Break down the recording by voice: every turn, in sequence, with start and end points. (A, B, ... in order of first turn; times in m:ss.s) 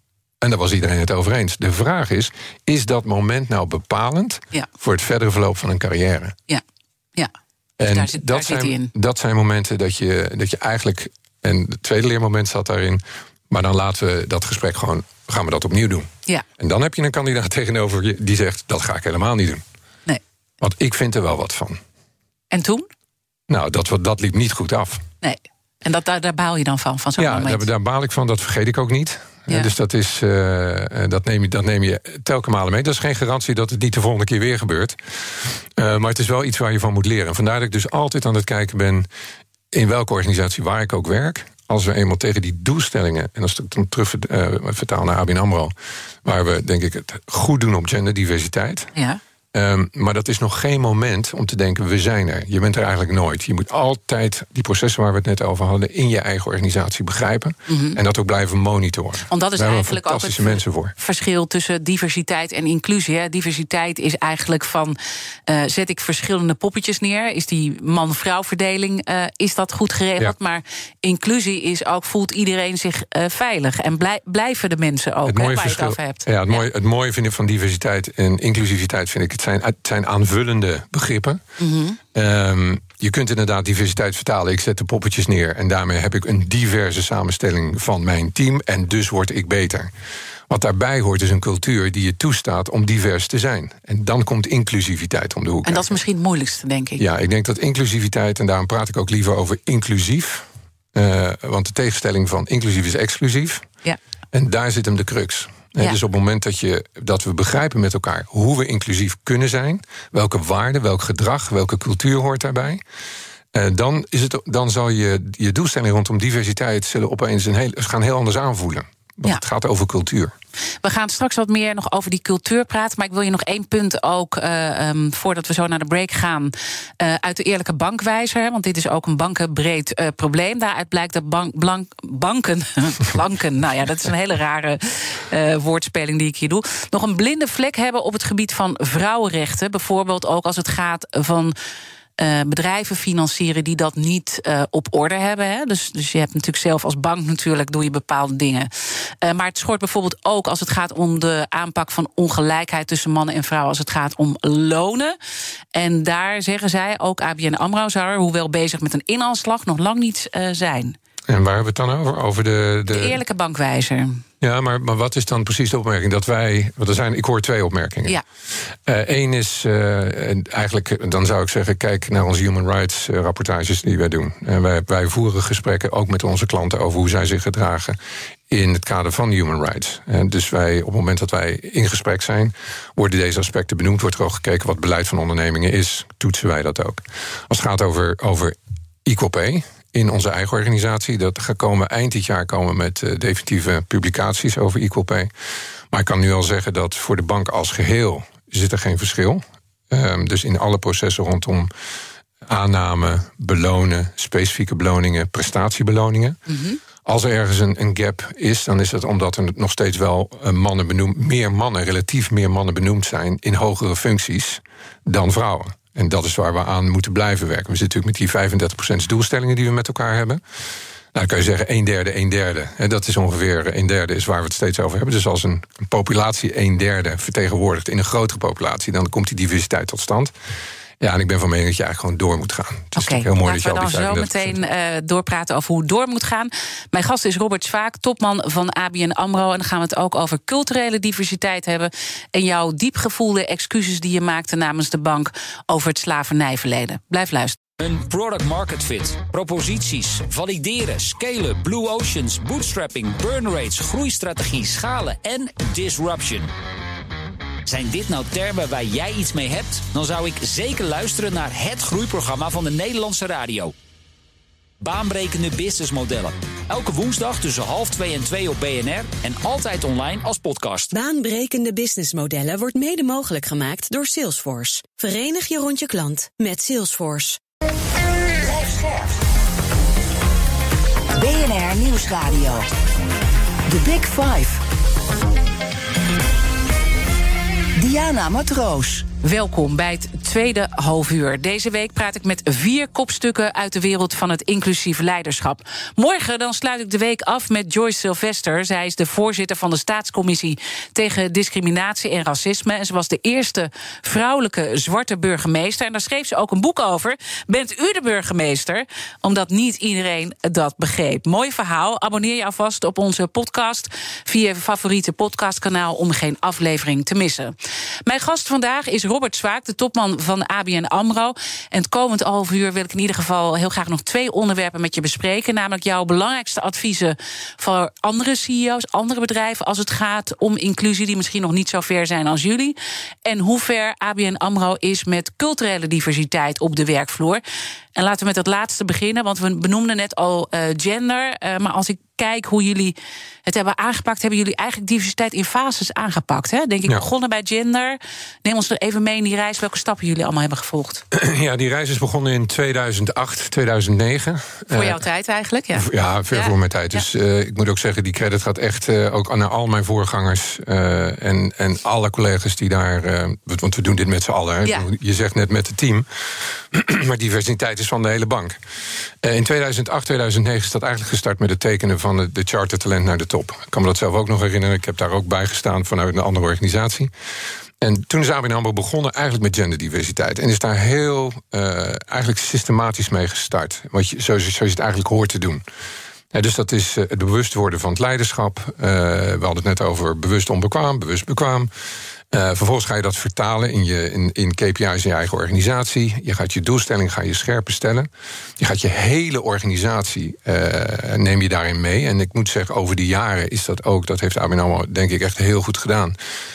0:00.4-0:06.4 A
0:07.8-0:19.6 A
0:07.8-0:08.9 B
0:20.6-0:21.8 A
0:22.5-0:22.9 B
0:23.5-0:25.0 A
0:25.2-0:27.7 B
0:27.2-0:35.0 A
0:35.8-0:39.1 A
0:39.7-0:45.7 A
0:46.2-0:48.9 A
0:49.5-1:00.9 A
0:57.7-0:58.0 B
0:59.3-1:16.6 B
1:15.2-1:21.4 A
1:21.6-1:22.0 B
1:22.1-1:29.9 A
1:30.5-1:36.0 A
1:35.6-1:37.0 B
1:37.0-1:43.7 A
1:44.3-1:52.8 A
1:53.5-2:00.3 A
2:00.8-2:21.5 B
2:22.2-2:28.7 B
2:29.2-2:35.2 B
2:35.7-2:41.0 B
2:41.3-2:43.2 A
2:42.9-2:44.2 B
2:44.4-2:48.2 A
2:48.8-2:58.0 A
2:58.5-3:15.3 A
3:15.9-3:21.7 A
3:22.5-3:26.4 A
3:26.5-3:26.8 B
3:27.0-3:40.4 A
3:41.1-3:50.3 A
3:51.0-3:54.6 A
3:52.9-4:07.6 B
4:07.8-4:16.5 C
4:17.6-4:23.7 C
4:24.8-4:30.9 C
4:30.9-4:37.4 D
4:38.4-4:39.2 E
4:41.1-4:42.7 E
4:43.7-4:44.6 E
4:47.8-4:49.1 E
4:49.2-5:17.5 B
5:18.0-5:37.4 B
5:37.9-5:42.9 B
5:43.4-5:51.0 B
5:51.1-5:55.0 A
5:54.7-5:57.0 B
5:55.7-6:08.6 A
6:09.2-6:17.1 A
6:17.8-6:25.6 A
6:26.3-6:31.7 A
6:32.3-6:46.2 A